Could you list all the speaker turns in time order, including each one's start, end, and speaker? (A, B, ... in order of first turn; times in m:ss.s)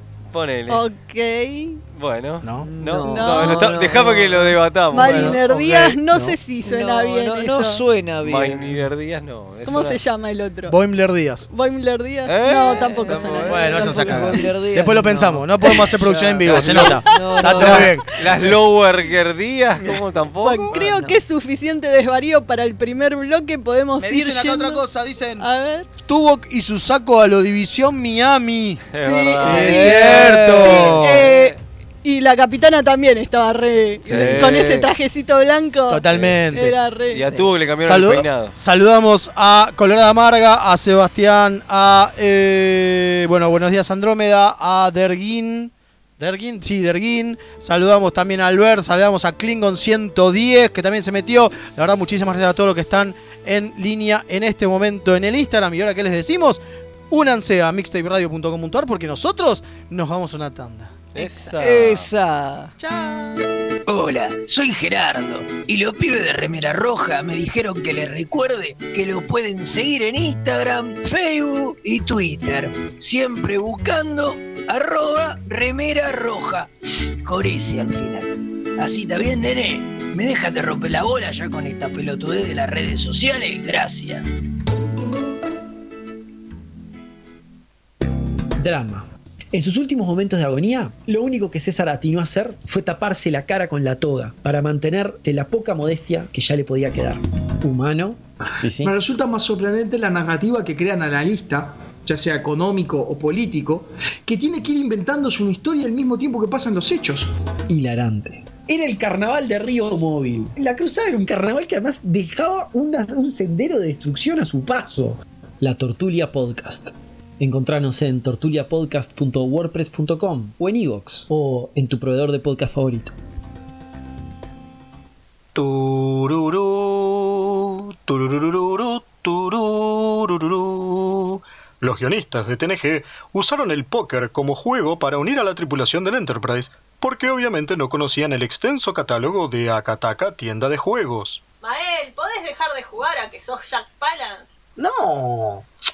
0:00.3-0:00.8 A
0:00.7-0:01.8 B
0:01.9-0:05.4 A
0:02.4-0:02.7 C
0:02.6-0:05.4 D
0:03.1-0:03.6 B
0:04.9-0:07.8 B
0:05.0-0:06.4 C
0:06.6-0:08.8 D
0:08.2-0:10.0 A
0:09.6-0:10.8 B
0:10.7-0:11.4 C
0:11.5-0:14.2 B
0:12.2-0:14.2 A
0:12.8-0:17.9 D
0:13.5-0:18.5 C
0:16.4-0:16.9 A
0:16.7-0:17.7 B
0:17.6-0:20.8 A
0:20.4-0:24.8 B
0:20.7-0:21.2 D
0:24.0-0:25.4 C
0:25.4-0:25.9 B
0:26.0-0:28.9 C
0:28.9-0:29.9 A
0:29.0-0:37.2 B
0:29.4-0:31.3 C
0:29.6-0:31.6 D
0:34.0-0:34.9 A
0:34.1-0:34.6 C
0:35.9-0:36.7 C
0:36.1-0:38.5 A
0:37.8-1:01.1 C
1:01.1-1:02.1 A
1:01.2-1:01.5 B
1:01.6-1:02.7 D
1:02.8-1:03.4 C
1:03.9-1:24.2 E
1:28.6-1:38.2 F
1:38.6-1:47.3 G
1:47.7-2:03.1 F
2:05.5-2:21.4 H
2:21.6-2:24.5 B
2:24.8-2:25.6 H